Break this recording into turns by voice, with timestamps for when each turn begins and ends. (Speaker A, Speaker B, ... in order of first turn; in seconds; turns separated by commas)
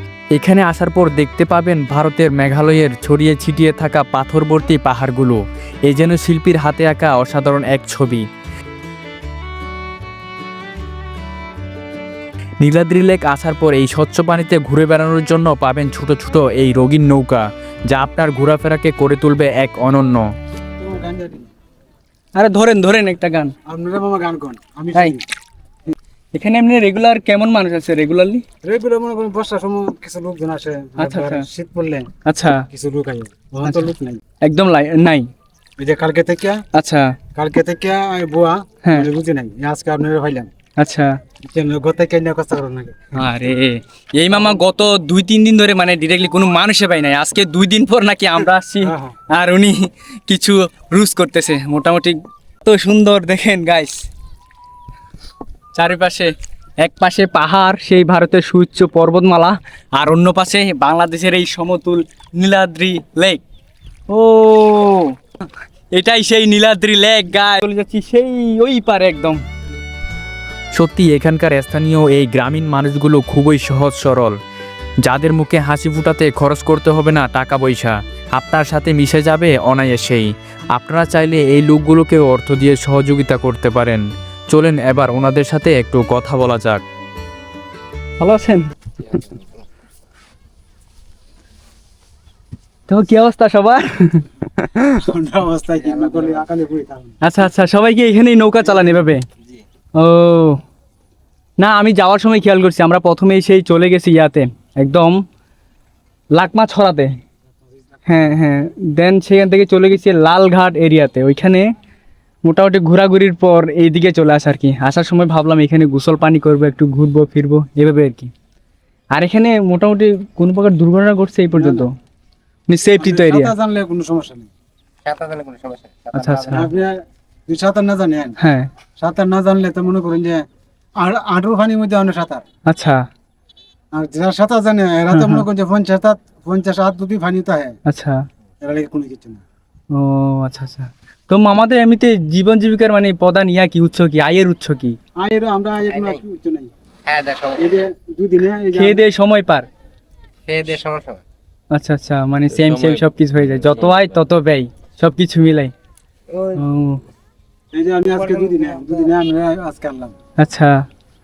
Speaker A: 0.3-8.2, Speaker A: 12.6-20.3, Speaker B: 20.8-21.5, Speaker C: 22.4-23.5, Speaker B: 23.7-25.2, Speaker C: 26.3-28.4, Speaker B: 28.6-34.2, Speaker C: 31.0-31.4, Speaker C: 32.2-32.6, Speaker C: 34.4-35.3, Speaker B: 35.8-36.6, Speaker C: 36.7-37.2, Speaker B: 37.3-40.5, Speaker C: 40.8-41.1, Speaker B: 41.4-43.2, Speaker C: 43.1-54.0, Speaker B: 48.8-49.1, Speaker C: 55.7-63.4, Speaker C: 64.1-65.2, Speaker C: 65.9-69.4, Speaker A: 70.7-74.3, Speaker A: 75.0-86.8, Speaker C: 88.2-89.2, Speaker C: 92.9-94.9, Speaker B: 95.0-97.1, Speaker C: 97.2-99.2, Speaker C: 100.0-100.6, Speaker C: 101.6-105.2, Speaker C: 106.3-107.1, Speaker C: 108.1-111.7, Speaker C: 112.5-118.3, Speaker C: 119.1-121.9, Speaker B: 121.5-121.9, Speaker C: 122.7-123.5, Speaker B: 123.0-124.5, Speaker D: 125.0-126.1, Speaker C: 126.1-126.7, Speaker B: 126.2-128.3, Speaker C: 128.4-128.7, Speaker B: 129.0-130.4, Speaker B: 131.0-132.4, Speaker C: 132.7-133.0, Speaker B: 133.9-137.8, Speaker C: 135.1-135.4, Speaker C: 137.9-138.2, Speaker B: 138.6-139.4, Speaker C: 139.9-145.0, Speaker B: 145.2-146.7, Speaker D: 147.1-147.6, Speaker B: 147.5-149.0, Speaker C: 148.7-149.7, Speaker D: 150.5-151.2, Speaker C: 151.7-155.7, Speaker C: 156.5-157.0, Speaker B: 157.7-160.1, Speaker C: 160.4-160.8